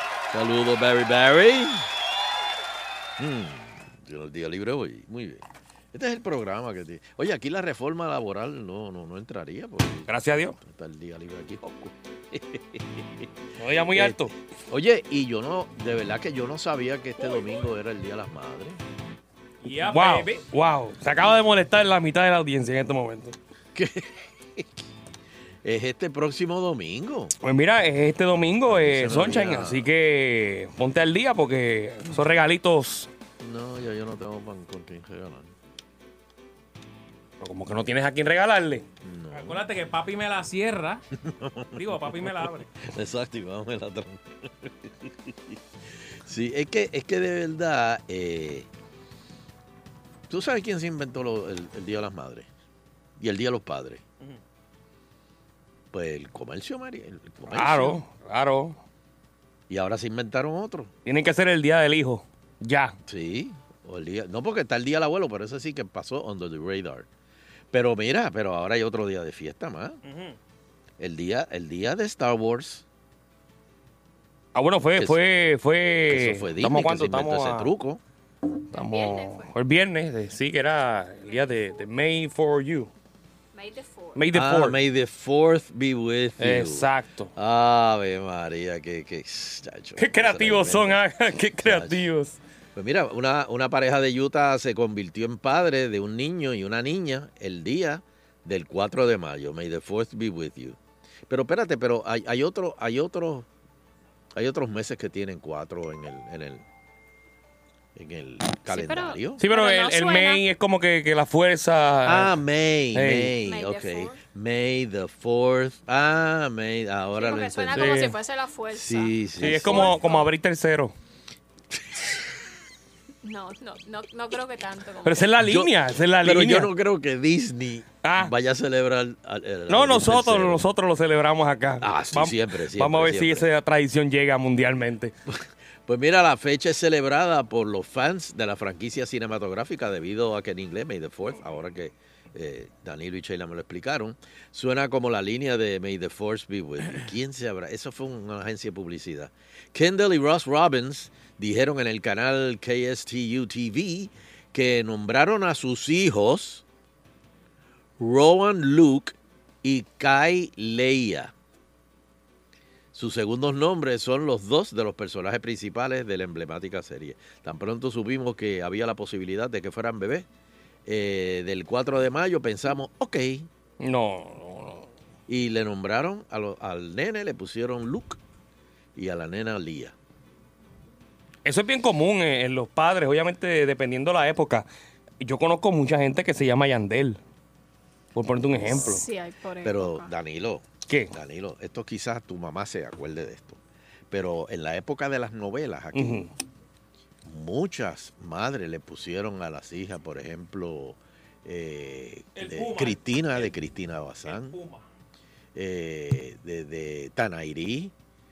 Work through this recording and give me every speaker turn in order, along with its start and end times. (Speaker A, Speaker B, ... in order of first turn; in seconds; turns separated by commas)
Speaker A: 0.3-1.9, Speaker A: 3.2-13.3, Speaker B: 10.1-10.6, Speaker B: 13.6-14.3, Speaker A: 13.9-18.8, Speaker C: 19.6-20.4, Speaker B: 19.9-23.4, Speaker A: 23.8-24.7, Speaker A: 25.6-27.3, Speaker B: 27.4-33.1, Speaker A: 28.7-29.9, Speaker A: 33.4-35.5, Speaker B: 37.4-38.9, Speaker A: 39.0-39.6, Speaker C: 39.3-41.0, Speaker A: 41.2-45.6, Speaker C: 41.8-42.7, Speaker A: 46.2-48.7, Speaker A: 50.3-52.5, Speaker A: 53.2-54.0, Speaker A: 55.9-58.0, Speaker B: 57.5-58.8, Speaker A: 59.7-60.9, Speaker B: 61.1-63.0, Speaker A: 63.1-67.1, Speaker A: 67.7-70.0, Speaker C: 70.0-70.4, Speaker A: 71.0-72.8, Speaker B: 74.5-77.7, Speaker A: 76.1-78.0, Speaker D: 78.7-79.5, Speaker B: 78.7-82.9, Speaker D: 81.2-81.9, Speaker D: 83.5-84.2, Speaker B: 84.2-84.8, Speaker A: 84.3-91.0, Speaker B: 86.4-87.3, Speaker B: 90.0-92.4, Speaker A: 91.6-92.0, Speaker A: 92.8-103.5, Speaker A: 104.4-106.6, Speaker A: 108.0-109.4, Speaker D: 108.7-110.4, Speaker B: 109.4-112.4, Speaker A: 112.0-118.0, Speaker B: 113.0-113.3, Speaker D: 113.5-114.2, Speaker D: 117.2-120.3, Speaker B: 117.7-118.1, Speaker A: 118.7-120.0, Speaker B: 119.4-120.9, Speaker D: 123.2-125.3, Speaker B: 125.0-126.7, Speaker A: 125.4-130.6, Speaker B: 128.0-128.3, Speaker B: 129.7-135.1, Speaker A: 131.8-133.5, Speaker A: 135.3-156.6, Speaker A: 158.0-161.3, Speaker A: 162.9-170.3, Speaker A: 170.9-173.5, Speaker B: 173.8-174.9, Speaker A: 175.3-178.2, Speaker A: 178.9-179.9, Speaker B: 181.4-184.7, Speaker B: 185.2-187.2, Speaker B: 188.1-189.1, Speaker A: 188.4-189.0, Speaker D: 188.7-190.1, Speaker A: 189.6-193.6, Speaker B: 190.9-191.1, Speaker A: 194.1-196.2, Speaker B: 195.9-196.3, Speaker A: 197.2-204.6, Speaker C: 202.3-203.5, Speaker C: 204.2-204.9, Speaker A: 205.6-207.9